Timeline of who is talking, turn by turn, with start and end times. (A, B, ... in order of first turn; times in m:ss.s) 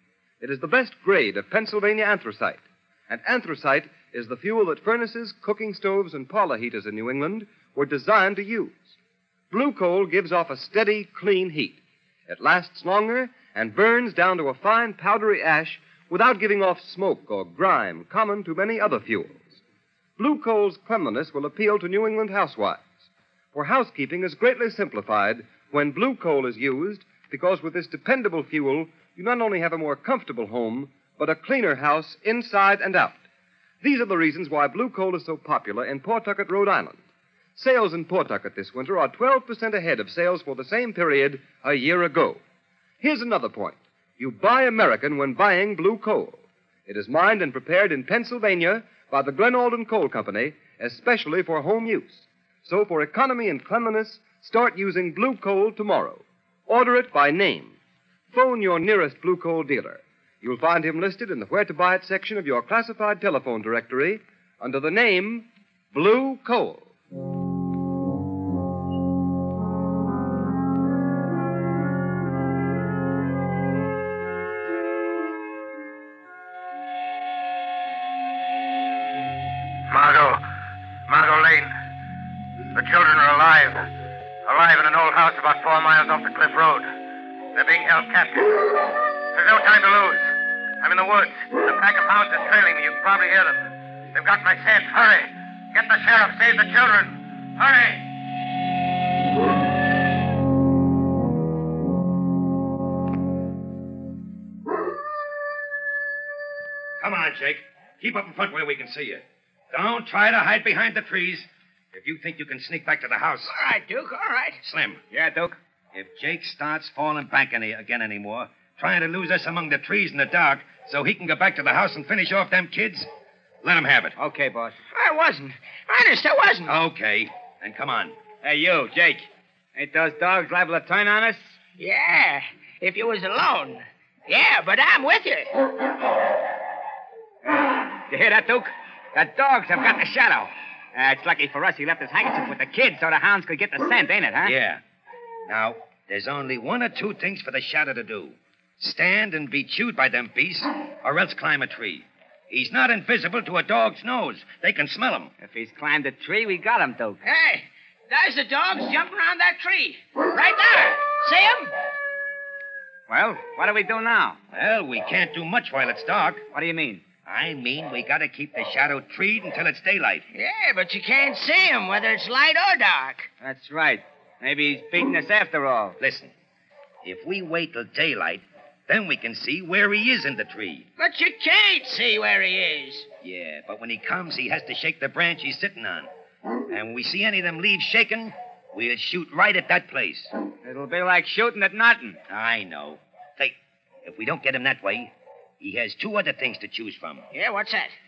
0:00.4-0:08.9 A
0:09.5-0:19.6 A
0:20.2-0:22.9 A
0:23.5-0:33.2 A
0:33.8-0:37.0 A
0:37.6-0:42.4 A
0:43.0-0:57.8 A
0:58.3-1:06.9 A
1:19.9-1:20.4 B
1:21.1-1:21.7 B
1:22.7-1:23.8 B
1:24.4-1:26.9 B
1:27.5-1:30.3 B
1:30.8-1:33.6 B
1:34.1-1:38.0 B
1:47.0-1:53.5 C
1:53.5-1:54.6 D
1:54.6-1:55.0 C
1:55.1-1:55.6 E
1:55.9-2:03.1 C
2:03.6-2:04.1 C
2:04.2-2:04.8 E
2:04.9-2:06.7 D
2:06.7-2:08.1 C
2:08.4-2:11.6 E
2:11.8-2:15.5 D
2:17.5-2:24.5 E
2:24.4-2:24.8 C
2:25.5-2:35.3 C
2:35.4-2:37.2 E
2:37.2-2:41.7 D
2:43.1-2:44.4 E
2:44.5-2:46.4 C
2:46.5-2:47.0 E
2:47.2-2:50.2 C
2:50.3-2:53.3 D
2:53.4-2:56.0 E
2:56.0-2:56.3 C
2:57.0-3:00.9 C
3:01.0-3:03.1 D
3:03.2-3:06.1 C
3:06.7-3:10.3 C
3:10.6-3:12.2 E
3:12.3-3:17.2 C
3:17.3-3:17.9 D